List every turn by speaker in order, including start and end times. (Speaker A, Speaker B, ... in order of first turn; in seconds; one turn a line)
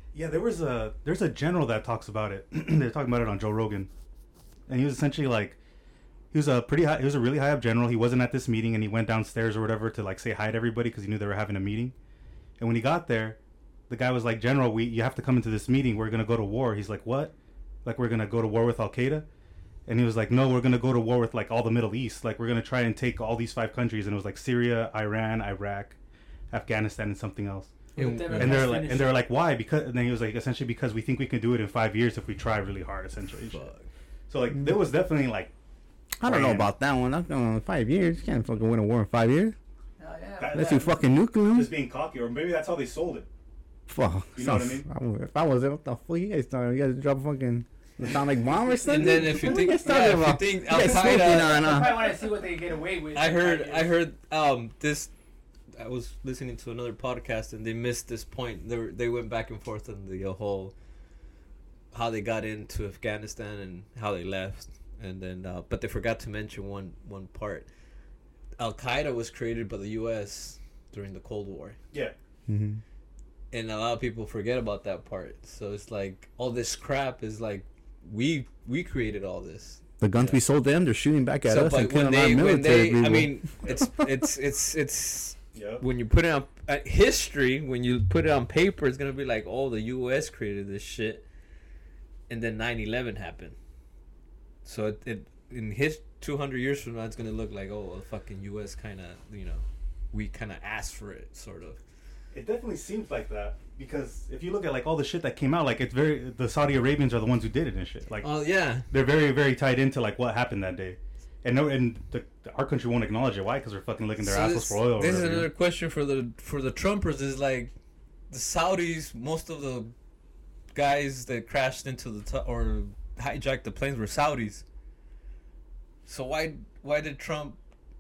Speaker A: 0.1-3.9
Speaker A: 4.7-5.6
Speaker A: 6.3-11.9
Speaker A: 12.6-19.3
Speaker A: 19.9-26.0
Speaker A: 26.5-27.7
Speaker B: 27.9-29.2
Speaker C: 28.0-28.8
Speaker A: 28.3-33.7
Speaker C: 33.5-33.9
Speaker A: 34.3-35.5
Speaker D: 36.2-39.5
Speaker A: 36.2-36.7
Speaker B: 40.0-40.9
Speaker A: 40.4-43.3
Speaker D: 40.5-41.7
Speaker D: 43.9-52.0
Speaker A: 44.4-44.9
Speaker C: 48.8-51.9
Speaker B: 51.1-53.9
Speaker C: 53.1-55.1
Speaker C: 55.7-60.7
Speaker C: 61.9-67.7
Speaker C: 68.6-71.8
Speaker D: 72.5-72.8
Speaker C: 73.5-80.4
Speaker D: 80.0-83.4
Speaker C: 81.5-91.2
Speaker A: 83.6-83.9
Speaker A: 85.5-85.8
Speaker C: 92.3-93.6
Speaker C: 94.7-101.8
Speaker A: 102.3-108.3
Speaker C: 108.2-108.9
Speaker A: 108.9-115.5
Speaker C: 114.2-117.7
Speaker C: 118.3-119.9
Speaker C: 120.7-124.6
Speaker C: 126.1-127.6